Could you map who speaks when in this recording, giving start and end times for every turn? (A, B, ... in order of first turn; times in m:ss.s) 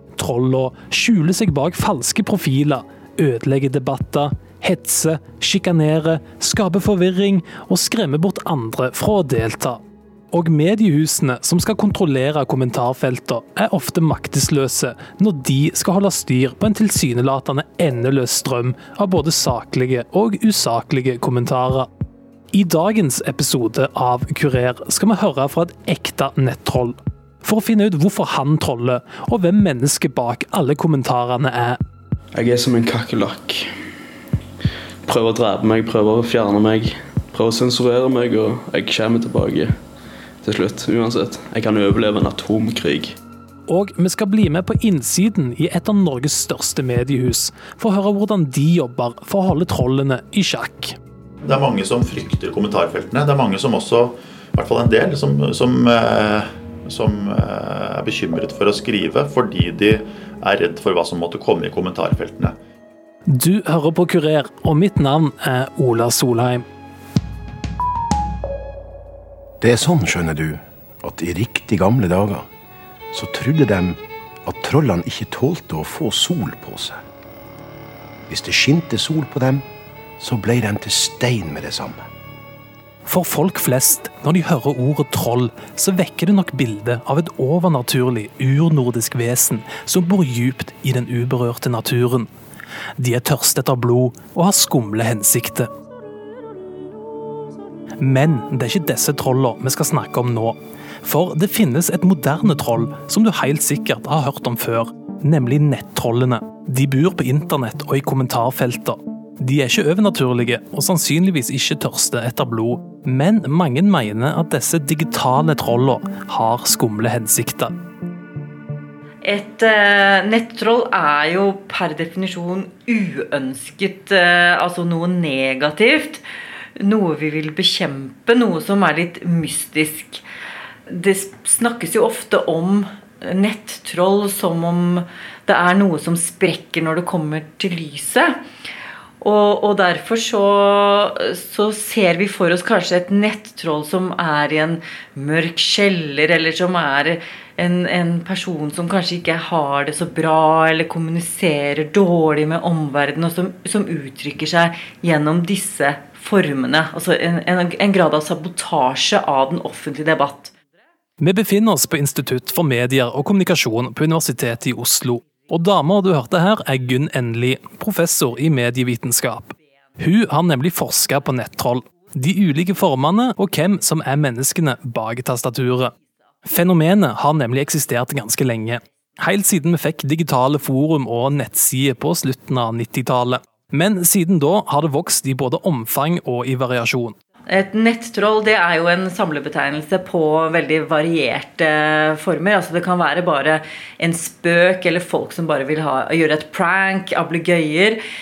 0:00.2-0:09.8 A
0:10.3-0:21.9 A
0:22.5-0:31.8 A
0:32.3-0:33.7 B
0:35.0-0:39.7 B
0:40.4-0:43.2 B
0:43.7-0:51.0 A
0:51.4-1:02.6 C
1:03.3-1:06.6 A
1:09.6-1:12.5 D
1:13.1-1:17.0 D
1:18.3-1:19.7 D
1:20.2-1:22.1 D
1:23.1-1:32.3 A
1:33.0-1:35.7 A
1:38.0-1:57.7 A
1:59.2-2:06.2 E
2:06.8-2:10.2 E
2:10.9-2:18.4 E
2:19.2-2:40.5 E
2:41.2-2:55.9 A
2:56.5-3:07.2 A
3:07.5-3:18.0 E